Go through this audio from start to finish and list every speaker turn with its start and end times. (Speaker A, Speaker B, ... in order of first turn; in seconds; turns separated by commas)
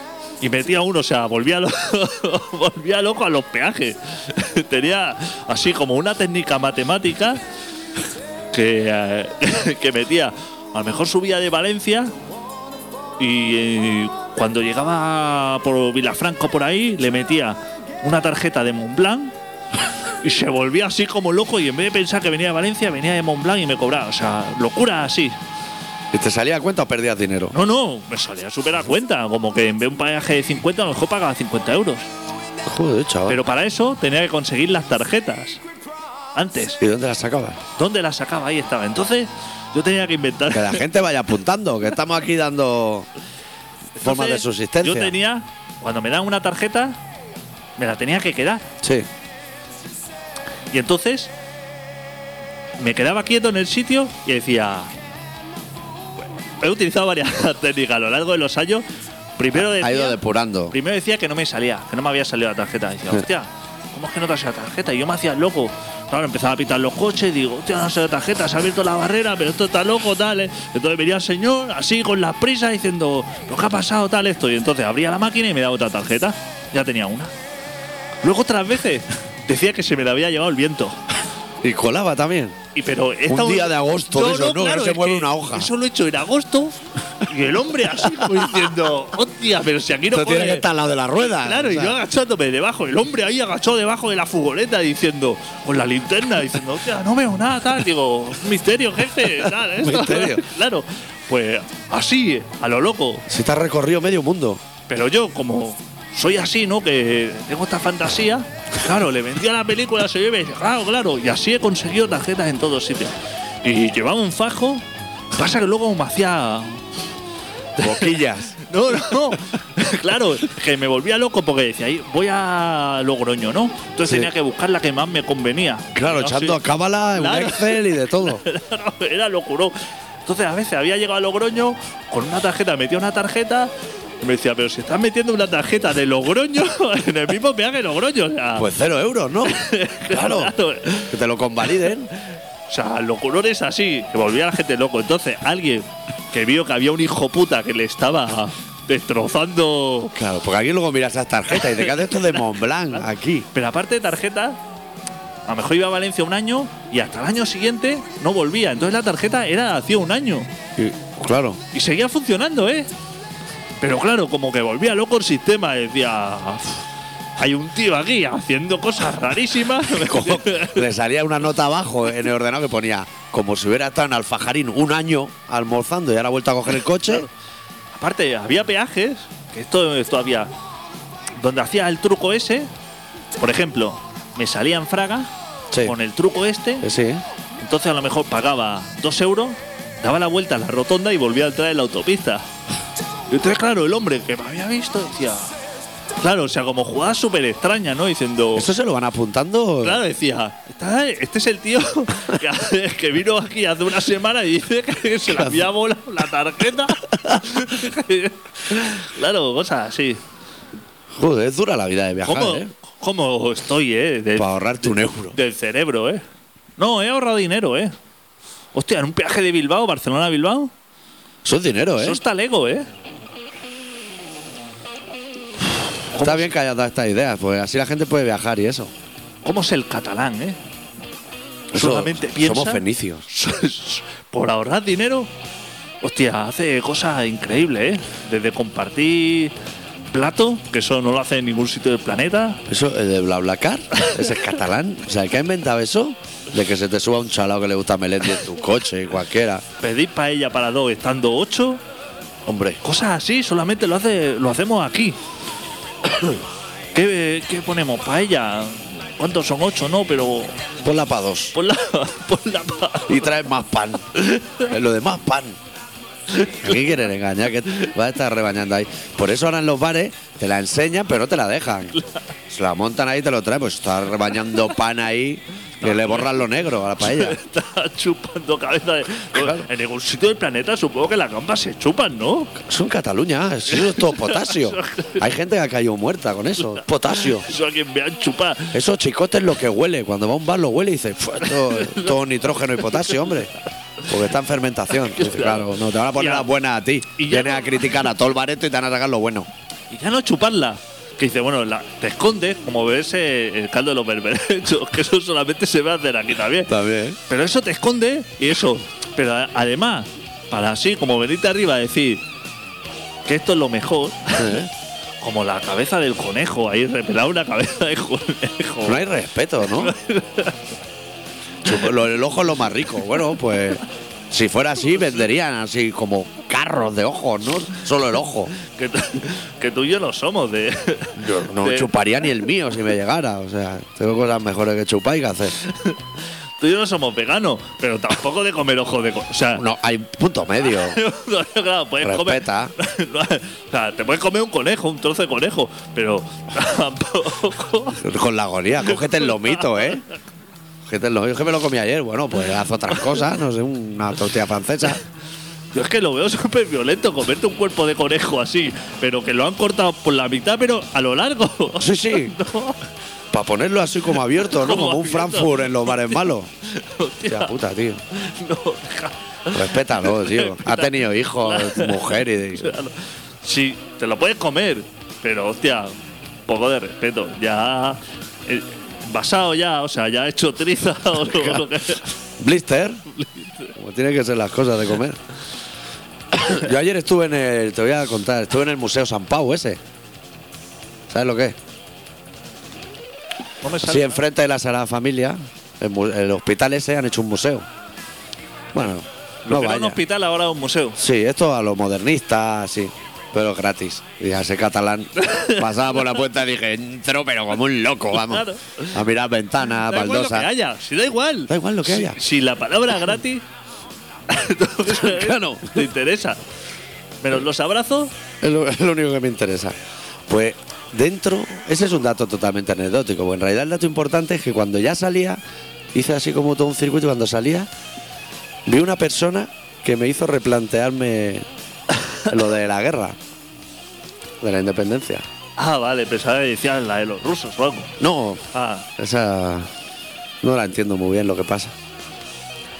Speaker A: 0.4-7.4, Speaker A: 8.5-12.1, Speaker A: 13.2-19.3, Speaker A: 20.2-25.4, Speaker B: 26.1-27.6, Speaker A: 27.5-32.1, Speaker B: 32.6-33.4, Speaker A: 33.3-35.6, Speaker A: 36.4-36.8, Speaker B: 36.8-37.6, Speaker A: 37.8-40.9, Speaker B: 40.5-43.1, Speaker A: 44.0-47.0, Speaker B: 44.0-45.2, Speaker A: 47.8-48.7, Speaker B: 48.8-49.1, Speaker A: 50.7-51.3, Speaker A: 52.8-54.9, Speaker A: 56.4-58.9, Speaker A: 59.4-60.2, Speaker B: 59.5-60.8, Speaker A: 60.7-77.3, Speaker A: 78.2-81.0, Speaker B: 81.6-82.6, Speaker A: 82.7-90.7, Speaker B: 83.3-85.7, Speaker B: 90.1-92.0, Speaker A: 91.2-103.3, Speaker B: 99.4-100.4, Speaker B: 103.3-104.6, Speaker A: 104.9-116.8, Speaker A: 117.8-126.6, Speaker B: 117.8-118.6, Speaker B: 124.1-124.3, Speaker B: 125.9-128.4, Speaker A: 127.1-138.7, Speaker B: 138.6-142.1, Speaker A: 139.4-141.1, Speaker A: 142.7-150.2, Speaker B: 150.1-153.5, Speaker A: 151.7-152.2, Speaker A: 153.5-154.6, Speaker A: 155.4-160.5, Speaker B: 160.8-161.6, Speaker A: 161.7-162.9, Speaker A: 163.8-166.8, Speaker A: 167.4-170.8, Speaker B: 169.9-177.3, Speaker A: 177.9-180.5, Speaker A: 181.4-182.7, Speaker A: 183.4-185.3, Speaker A: 185.8-186.8, Speaker B: 186.8-187.2, Speaker A: 187.6-192.4, Speaker A: 193.3-195.5, Speaker A: 196.2-198.7, Speaker B: 198.6-200.0, Speaker A: 199.8-210.2, Speaker B: 205.3-205.7, Speaker B: 211.1-212.7, Speaker A: 212.2-216.2, Speaker B: 214.3-215.4, Speaker A: 216.8-217.9, Speaker A: 218.7-220.7, Speaker B: 221.4-222.2, Speaker A: 222.0-222.9, Speaker A: 226.1-226.5, Speaker B: 226.2-228.9, Speaker A: 229.4-230.6, Speaker B: 231.7-233.3, Speaker A: 231.8-235.3, Speaker A: 236.0-239.5, Speaker A: 240.1-242.6, Speaker B: 242.7-249.6, Speaker A: 249.8-251.8, Speaker B: 252.4-252.8, Speaker A: 252.8-255.2, Speaker A: 256.1-256.4, Speaker A: 256.9-260.6, Speaker B: 260.8-261.6, Speaker A: 261.5-263.3, Speaker B: 263.1-265.6, Speaker A: 266.3-266.8, Speaker B: 266.6-271.9, Speaker A: 271.9-272.2, Speaker B: 272.5-277.4, Speaker A: 275.8-276.5, Speaker A: 277.0-282.5, Speaker B: 279.3-279.7, Speaker B: 282.6-287.5, Speaker A: 283.7-285.2, Speaker A: 286.6-288.8, Speaker B: 288.7-293.5, Speaker A: 291.4-292.2, Speaker A: 292.8-293.3, Speaker B: 294.1-299.5, Speaker A: 295.0-296.5, Speaker A: 297.2-298.1, Speaker A: 299.9-306.7, Speaker B: 306.7-307.2, Speaker A: 307.3-312.2, Speaker A: 313.2-314.7, Speaker B: 314.4-314.7, Speaker A: 315.2-319.0, Speaker B: 318.8-319.9, Speaker A: 319.7-320.6, Speaker B: 321.6-328.5, Speaker A: 328.6-331.9, Speaker B: 331.2-335.6, Speaker A: 335.6-336.0, Speaker A: 336.6-339.6, Speaker B: 339.6-341.0, Speaker A: 340.6-348.0, Speaker B: 342.0-342.7, Speaker B: 348.0-350.0, Speaker A: 348.9-350.0, Speaker B: 350.9-355.0, Speaker A: 355.7-362.8, Speaker B: 361.8-362.3, Speaker B: 363.3-366.5, Speaker A: 364.4-367.5, Speaker B: 367.3-368.0, Speaker A: 368.1-375.9, Speaker B: 369.5-372.8, Speaker A: 376.5-382.1, Speaker B: 381.3-381.6, Speaker B: 382.4-383.1, Speaker A: 383.1-383.7, Speaker B: 383.8-385.2, Speaker B: 386.3-389.8, Speaker B: 391.1-391.6, Speaker A: 393.6-394.2, Speaker B: 393.8-397.7, Speaker B: 398.7-400.0, Speaker A: 399.4-401.0, Speaker B: 401.0-410.5, Speaker A: 405.2-405.7, Speaker A: 408.1-409.0, Speaker A: 409.7-413.4, Speaker B: 411.5-412.2, Speaker A: 414.3-416.4, Speaker B: 414.9-415.9, Speaker A: 417.2-418.1, Speaker B: 418.4-419.8, Speaker B: 420.3-425.4, Speaker B: 425.9-427.7, Speaker B: 428.7-431.5, Speaker B: 432.3-433.2, Speaker B: 434.4-435.3, Speaker A: 435.6-437.9, Speaker B: 438.0-438.4, Speaker A: 438.5-438.9, Speaker B: 439.0-439.7, Speaker B: 440.4-441.7